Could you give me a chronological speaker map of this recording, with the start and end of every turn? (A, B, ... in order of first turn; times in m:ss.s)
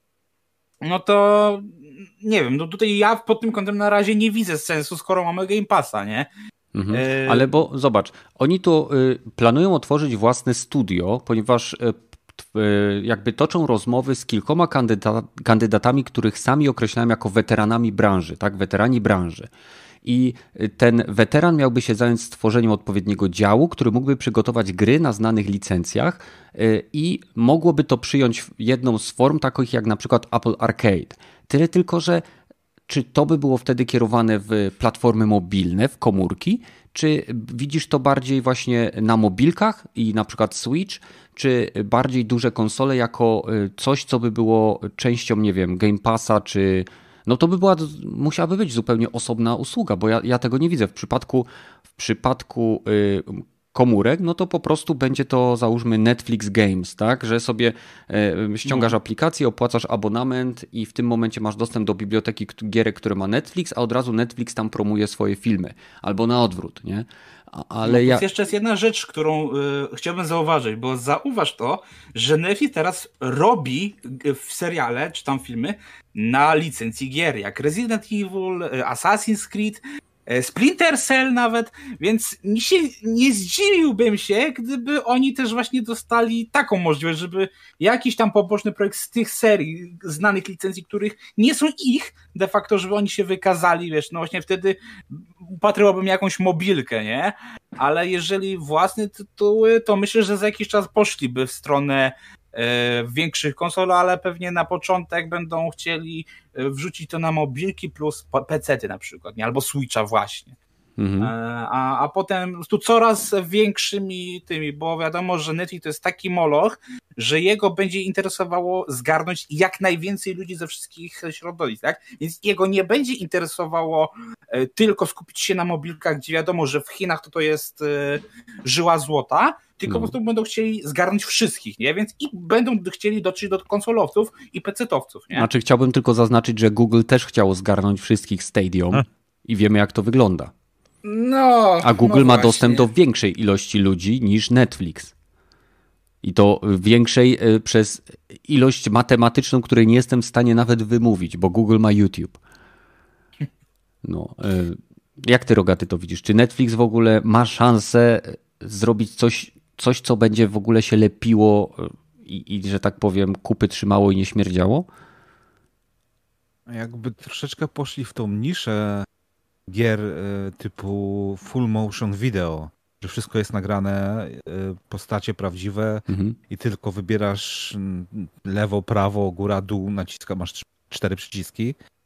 0:00.8-0:06.3 A
0:06.7-0:19.5 B
0:06.9-0:07.5 A
0:20.0-0:32.2 B
0:32.9-1:08.2 B
0:58.7-0:58.9 A
1:07.8-1:50.6 A
1:51.0-1:51.3 B
1:51.2-2:15.5 A
2:09.9-2:10.1 B
2:15.3-2:20.5 B
2:21.0-2:22.9 A
2:21.8-2:25.1 B
2:26.2-2:32.4 B
2:34.0-2:44.9 B
2:46.7-2:49.1 C
2:49.7-3:01.8 C
2:56.1-2:56.4 B